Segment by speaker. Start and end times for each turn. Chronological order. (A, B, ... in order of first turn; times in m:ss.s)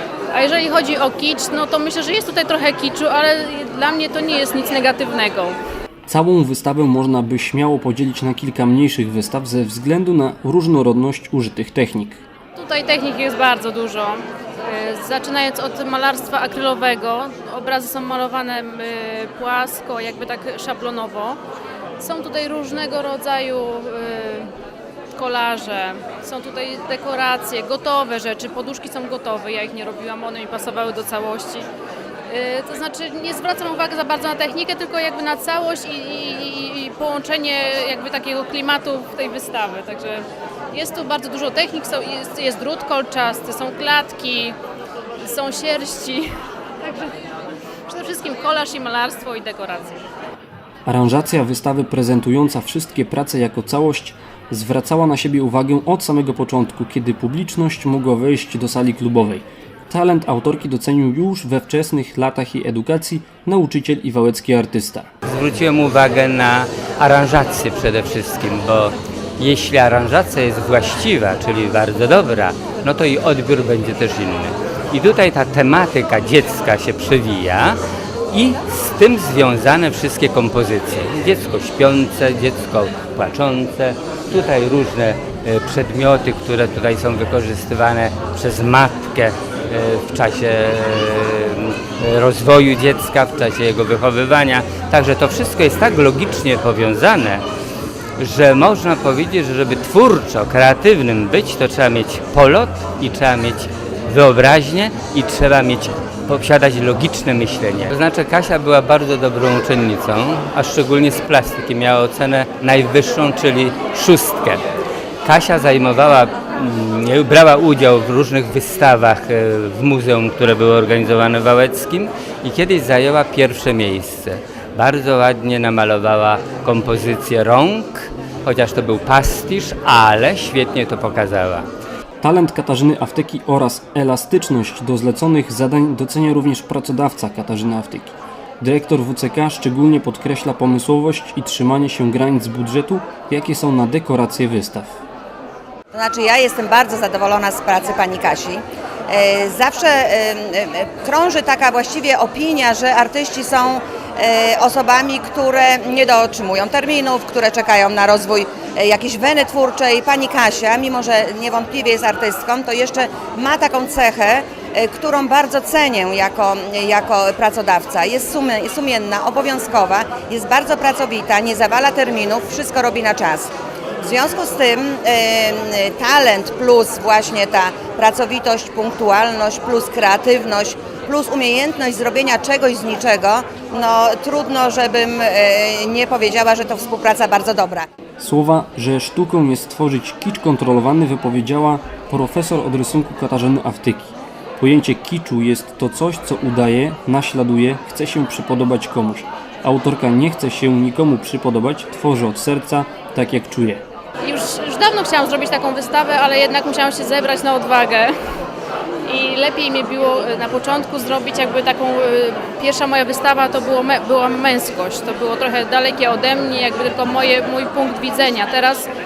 0:00.3-0:05.6 A
0:06.1-0:12.2 B
0:12.5-0:21.4 A
0:22.0-0:24.5 A
0:25.1-0:31.7 A
0:32.3-0:44.6 A
0:45.2-0:47.1 A
0:47.9-0:50.0 A
0:50.8-1:05.1 B
1:05.2-1:17.8 C
1:18.3-1:37.4 C
1:38.2-1:54.6 C
1:55.2-2:11.7 C
2:12.2-2:25.0 B
2:25.9-3:07.8 D
3:08.2-3:23.8 B
3:24.2-3:28.1 A
3:29.0-3:38.9 A